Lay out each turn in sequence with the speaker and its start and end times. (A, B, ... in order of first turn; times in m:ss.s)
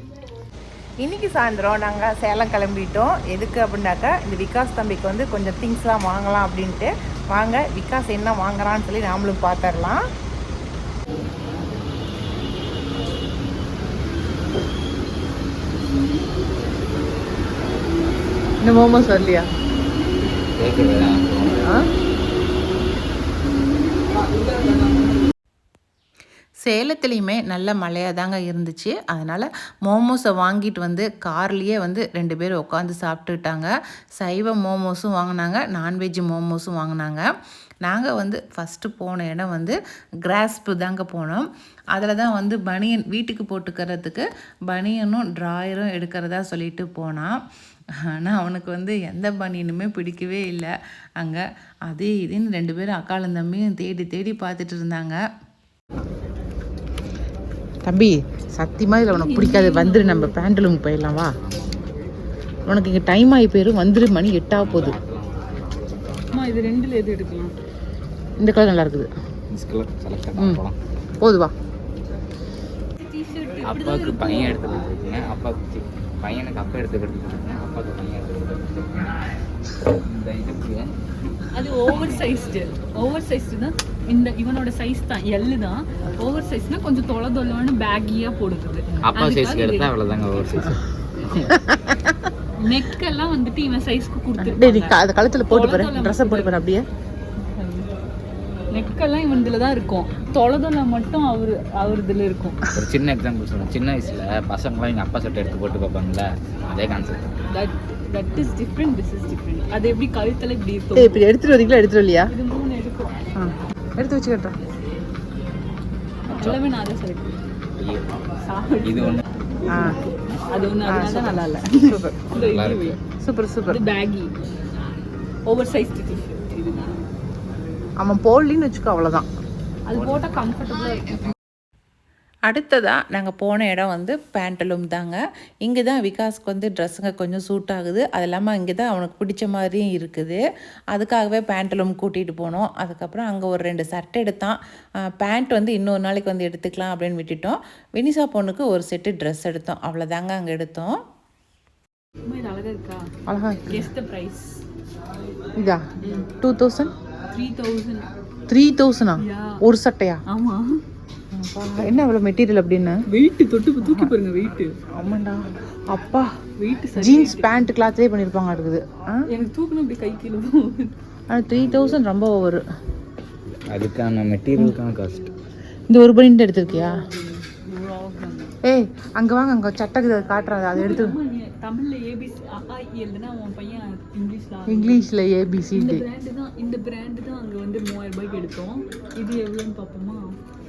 0:01.0-0:10.0 A
0:18.6-0:19.5 A
0:20.5-0:21.7 B
0:24.1-0:25.1 C
0:26.6-0:37.3 A
0:37.8-0:47.4 A
0:48.0-0:55.2 A
0:57.9-1:01.4 A
0:59.1-1:00.5 C
1:01.4-1:01.9 B
1:02.7-1:05.0 A
1:04.6-1:06.5 B
1:06.3-1:07.5 C
1:08.4-1:09.1 A
1:09.5-1:10.8 B
1:11.2-1:11.5 A
1:13.0-1:14.6 C
1:13.6-1:19.1 B
1:20.0-1:20.9 B
1:21.5-1:29.9 C
1:21.9-1:22.2 B
1:29.1-1:31.5 B
1:31.5-1:32.3 A
1:32.6-1:35.0 C
1:34.4-1:36.9 A
1:35.5-1:36.6 C
1:37.4-1:37.9 C
1:38.7-1:42.6 C
1:42.7-1:47.2 B
1:47.5-1:51.2 C
1:51.0-1:52.3 A
1:52.3-1:53.1 C
1:53.4-1:54.6 A
1:56.3-1:56.6 B
1:56.3-1:57.4 C
1:57.8-1:58.2 B
1:58.5-2:03.0 C
1:58.8-1:59.2 B
1:59.7-2:00.0 A
2:00.9-2:02.2 A
2:02.3-2:03.0 B
2:03.2-2:03.8 A
2:03.7-2:04.3 C
2:05.5-2:07.0 C
2:08.0-2:09.3 A
2:09.9-2:11.3 C
2:12.5-2:31.0 A
2:32.3-2:33.1 C
2:33.3-2:33.9 A
2:33.7-2:34.6 C
2:35.6-2:36.9 A
2:36.0-2:36.3 C
2:37.3-2:38.1 C
2:38.5-2:40.2 A
2:39.2-2:39.6 C
2:40.3-2:40.8 C
2:41.3-2:43.0 A
2:43.1-2:44.7 C
2:43.8-2:44.1 A
2:44.9-2:46.3 A
2:46.6-2:47.6 C
2:47.0-2:49.3 A
2:49.3-2:51.0 C
2:51.3-2:52.6 A
2:53.7-2:55.2 B
2:55.9-2:57.0 A
2:56.7-2:58.6 C
2:58.6-3:01.2 A
3:00.7-3:05.0 C
3:04.7-3:06.0 A
3:05.8-3:10.4 C